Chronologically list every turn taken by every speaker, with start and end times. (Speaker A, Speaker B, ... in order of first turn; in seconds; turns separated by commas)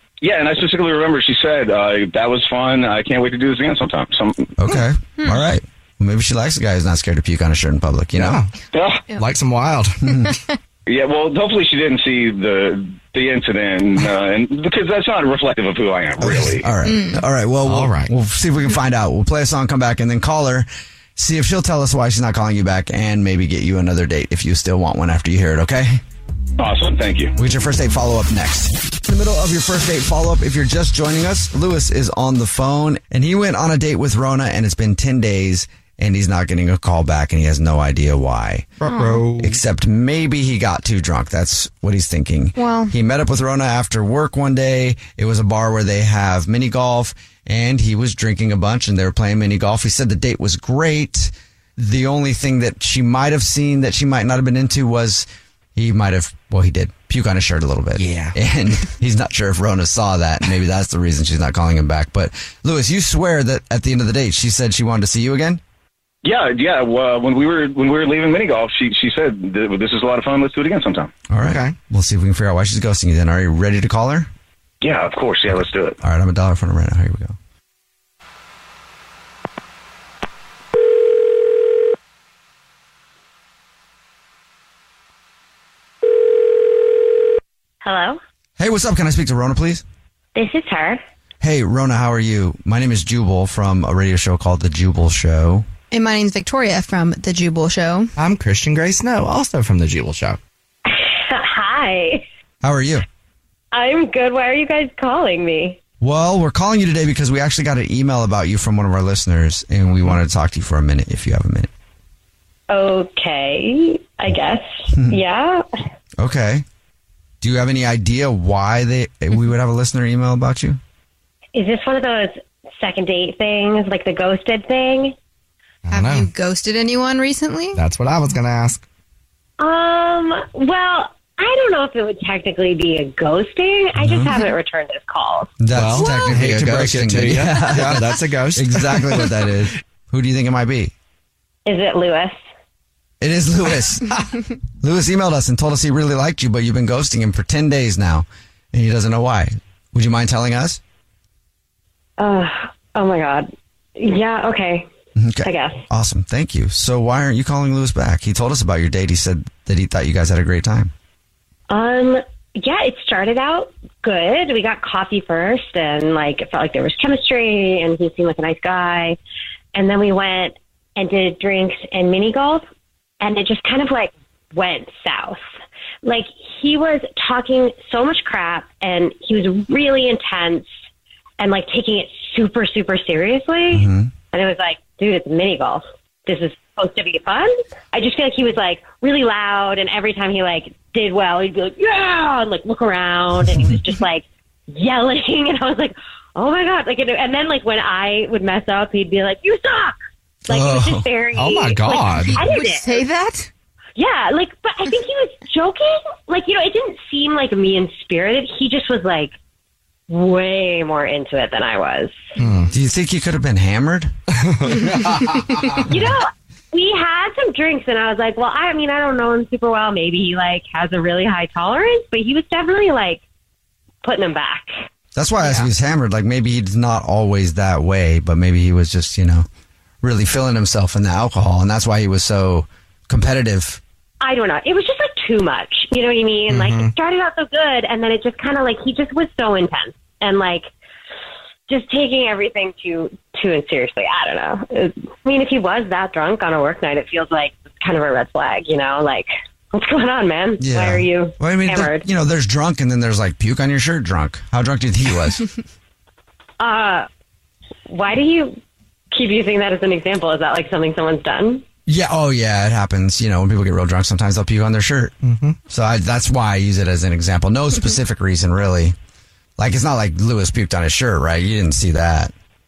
Speaker A: 0.2-4.5, Speaker B: 4.6-8.4, Speaker C: 8.2-8.5, Speaker A: 8.7-9.1, Speaker C: 9.1-10.3, Speaker B: 10.1-10.3, Speaker A: 10.9-16.7, Speaker B: 16.2-26.0, Speaker D: 16.8-17.2, Speaker C: 17.6-18.1, Speaker A: 26.6-27.4, Speaker B: 27.4-38.8, Speaker C: 38.8-39.6, Speaker D: 38.9-39.3, Speaker B: 39.4-65.6, Speaker D: 42.6-42.9, Speaker C: 58.0-58.4, Speaker A: 66.2-71.1, Speaker B: 71.3-74.3, Speaker C: 71.4-71.8, Speaker A: 74.8-76.0, Speaker B: 76.0-77.4, Speaker E: 87.8-88.2, Speaker B: 88.6-89.8, Speaker E: 90.3-91.0, Speaker B: 91.4-95.7, Speaker D: 95.9-98.1, Speaker C: 98.2-100.4, Speaker E: 100.9-102.2, Speaker B: 102.6-103.0, Speaker E: 103.7-105.8, Speaker B: 106.0-111.7, Speaker E: 112.7-115.7, Speaker B: 114.9-115.2, Speaker B: 116.2-116.7, Speaker B: 117.4-120.8, Speaker E: 121.5-125.2, Speaker C: 125.8-126.3, Speaker D: 125.9-127.8, Speaker C: 127.8-128.8, Speaker E: 129.6-135.5, Speaker B: 134.0-134.3, Speaker B: 135.6-140.9, Speaker C: 135.7-139.3, Speaker D: 136.0-136.3, Speaker E: 141.7-142.4, Speaker B: 143.2-144.2, Speaker B: 144.8-150.8, Speaker E: 152.2-154.9, Speaker B: 155.2-160.9, Speaker E: 155.4-155.8, Speaker E: 161.7-169.2, Speaker E: 169.7-172.7, Speaker E: 173.2-175.4, Speaker E: 176.0-180.7, Speaker E: 181.4-199.9, Speaker B: 183.7-184.1, Speaker B: 200.5-201.1, Speaker E: 200.5-203.1, Speaker C: 201.3-202.4, Speaker D: 202.1-203.5, Speaker E: 204.0-209.3, Speaker E: 210.1-212.3, Speaker C: 212.4-212.7, Speaker B: 212.7-214.1, Speaker C: 214.3-215.9, Speaker E: 215.9-223.2, Speaker E: 224.0-224.7, Speaker B: 225.2-229.5, Speaker B: 230.0-233.8, Speaker E: 234.2-240.7, Speaker C: 236.5-236.9, Speaker E: 241.7-252.1, Speaker B: 250.6-255.5, Speaker E: 256.6-257.1, Speaker E: 257.9-258.6, Speaker E: 259.1-261.6, Speaker B: 261.9-265.1, Speaker C: 265.2-265.6, Speaker B: 265.7-269.0, Speaker B: 269.6-272.3